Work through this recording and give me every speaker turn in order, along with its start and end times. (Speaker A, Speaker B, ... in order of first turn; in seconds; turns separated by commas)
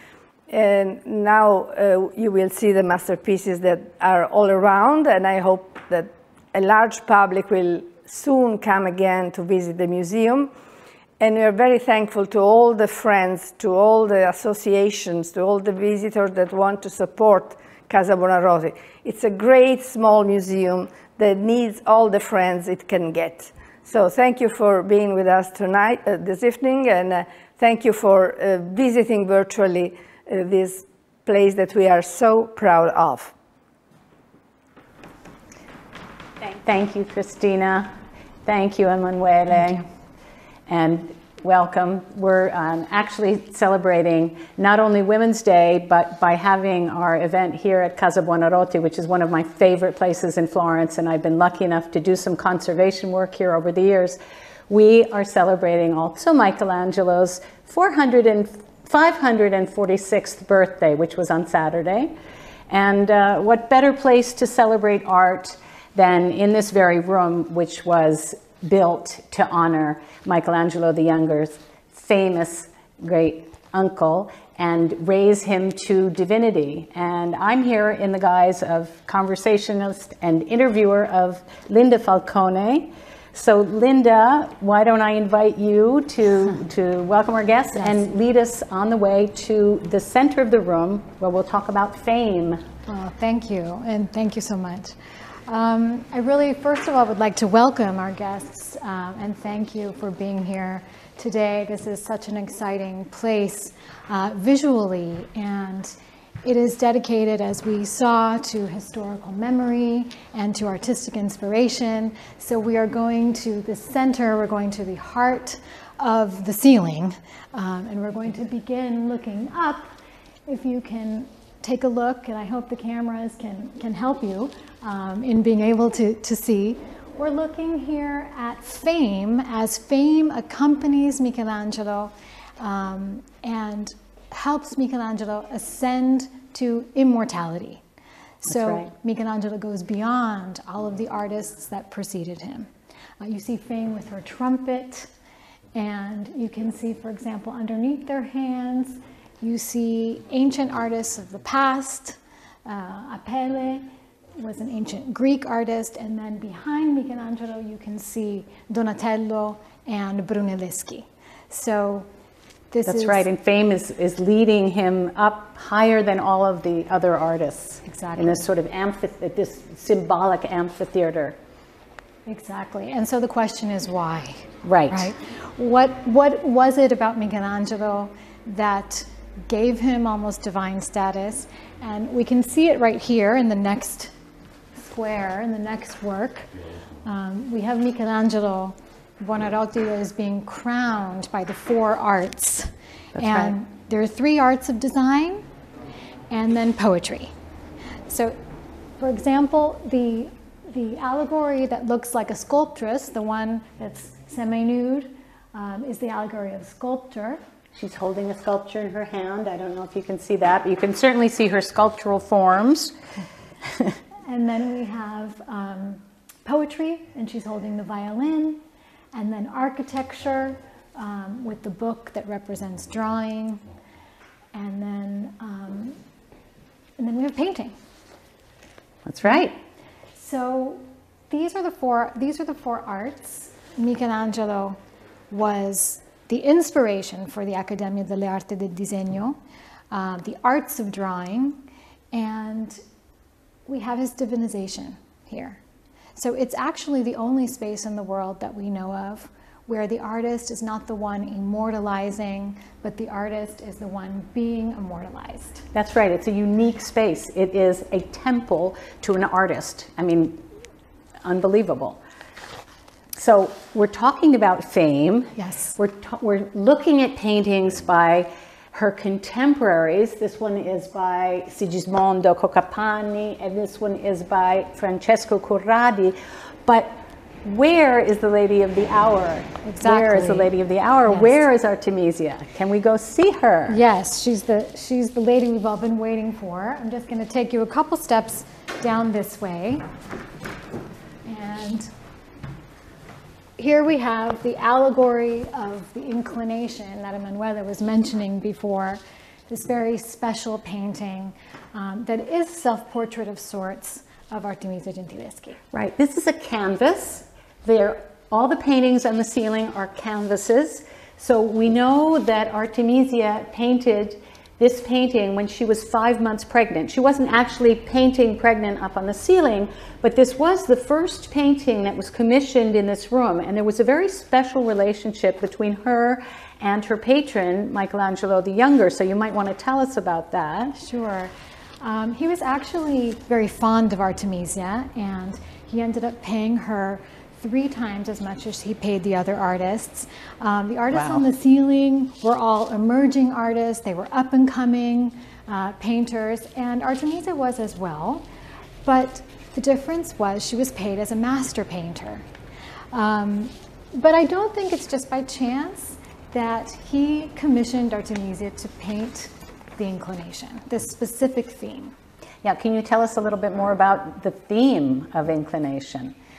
Speaker A: 0.5-10.5, Speaker A: 11.2-33.3, Speaker B: 36.4-37.9, Speaker B: 38.5-39.9, Speaker B: 40.7-54.2, Speaker B: 54.7-62.1, Speaker B: 62.7-92.6, Speaker C: 87.8-88.0, Speaker C: 92.9-95.0, Speaker C: 95.5-119.9, Speaker C: 120.5-137.8, Speaker C: 138.4-145.1, Speaker B: 138.5-138.9, Speaker C: 145.8-153.9, Speaker C: 154.4-162.1, Speaker C: 162.7-163.3, Speaker B: 162.9-171.4, Speaker C: 167.9-168.5, Speaker C: 172.3-184.1, Speaker B: 174.6-175.1, Speaker C: 184.8-186.5, Speaker C: 187.0-195.4, Speaker B: 193.2-193.5, Speaker C: 196.3-197.3, Speaker C: 198.1-198.4, Speaker C: 199.0-207.4, Speaker B: 207.7-212.9, Speaker C: 214.3-218.6, Speaker C: 219.1-223.6, Speaker C: 224.5-226.0, Speaker C: 227.0-227.8, Speaker B: 229.1-229.6, Speaker C: 230.2-234.8, Speaker C: 235.3-239.4, Speaker C: 239.9-241.6, Speaker C: 242.1-242.8, Speaker C: 243.7-245.6, Speaker C: 246.2-255.7, Speaker B: 255.7-260.4, Speaker B: 261.2-262.0, Speaker B: 263.1-283.8, Speaker C: 265.4-265.8, Speaker C: 279.6-280.5, Speaker C: 281.1-281.4, Speaker C: 283.7-289.9, Speaker C: 291.2-291.9, Speaker C: 293.6-305.6, Speaker B: 305.7-330.8, Speaker C: 330.8-348.3, Speaker B: 340.9-341.2, Speaker C: 348.9-352.2, Speaker C: 352.9-361.9, Speaker B: 362.4-366.1